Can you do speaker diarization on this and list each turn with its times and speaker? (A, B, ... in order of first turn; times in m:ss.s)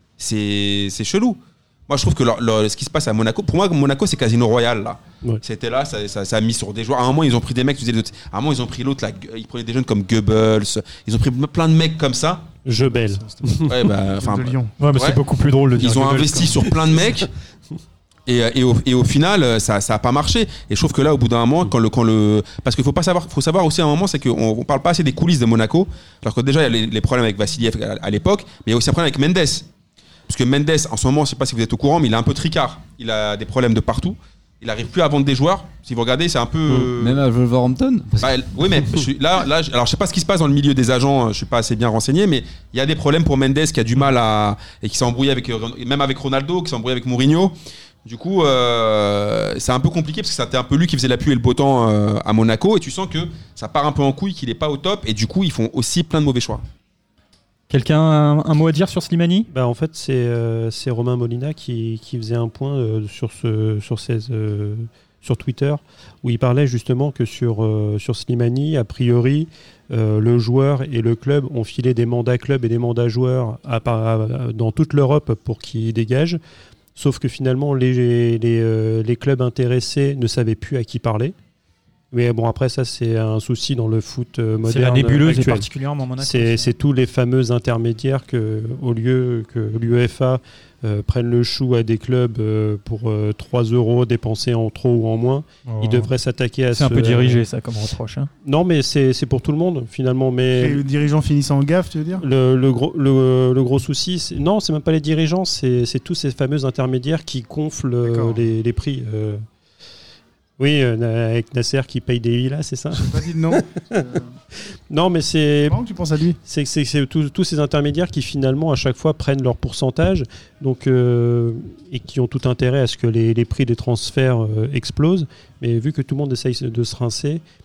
0:00.2-0:12.6 A
0:12.6-0:13.8 B
0:12.8-0:14.8 C
0:13.6-0:15.2 A
0:14.8-0:16.7 D
0:15.8-0:17.3 A
0:18.3-0:29.7 A
0:30.3-0:37.2 A
0:37.0-0:39.0 E
0:38.2-0:56.6 A
0:57.7-0:59.5 D
0:59.5-1:16.4 B
1:17.0-1:21.3 B
1:22.1-1:25.7 B
1:24.6-1:26.7 D
1:26.2-1:37.4 B
1:35.6-1:36.1 D
1:36.7-1:38.3 D
1:38.4-1:40.8 B
1:40.5-1:42.2 C
1:42.2-1:49.4 B
1:48.0-1:48.4 C
1:50.6-1:54.0 B
1:53.0-1:54.3 C
1:54.5-1:55.8 B
1:55.7-1:56.4 C
1:56.4-2:07.4 B